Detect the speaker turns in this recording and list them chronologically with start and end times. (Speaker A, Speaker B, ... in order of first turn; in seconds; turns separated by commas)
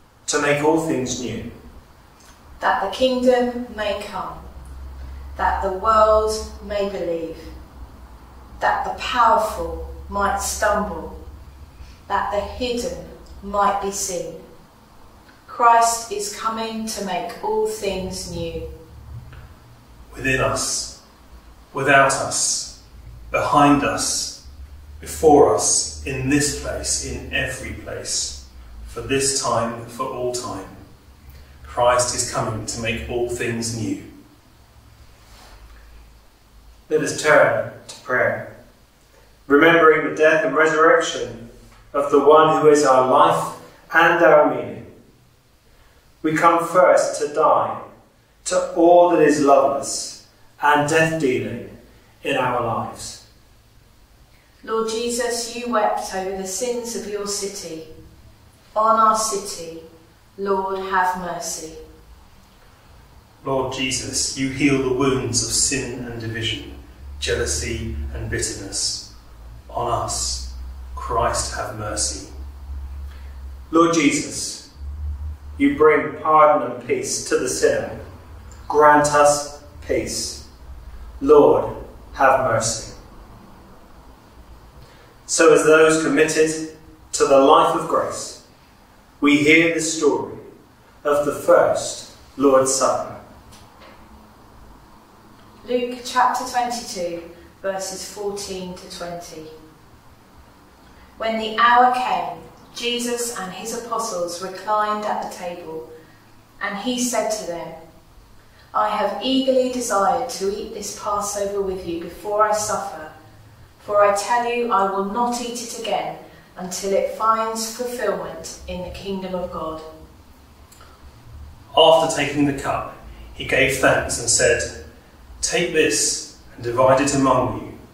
Speaker A: 0.2-1.5, Speaker B: 2.6-4.4, Speaker B: 5.3-7.5, Speaker B: 8.6-11.1, Speaker B: 12.1-14.4, Speaker B: 15.5-18.7, Speaker C: 20.1-20.9, Speaker C: 21.7-22.7, Speaker C: 23.3-24.4, Speaker C: 25.0-30.8, Speaker C: 31.6-34.0, Speaker A: 36.9-38.5, Speaker A: 39.5-44.8, Speaker A: 46.2-47.8, Speaker A: 48.4-51.7, Speaker A: 52.2-53.2, Speaker B: 54.6-57.9, Speaker B: 58.7-59.8, Speaker B: 60.4-61.8, Speaker C: 63.4-69.0, Speaker C: 69.7-72.3, Speaker A: 73.7-74.7, Speaker A: 75.6-78.0, Speaker A: 78.7-80.4, Speaker A: 81.2-82.9, Speaker A: 85.2-88.4, Speaker A: 89.2-90.4, Speaker A: 91.0-93.2, Speaker B: 95.6-99.5, Speaker B: 101.2-105.8, Speaker B: 106.6-107.8, Speaker B: 108.7-113.1, Speaker B: 113.8-119.8, Speaker C: 121.7-124.7, Speaker C: 125.4-127.7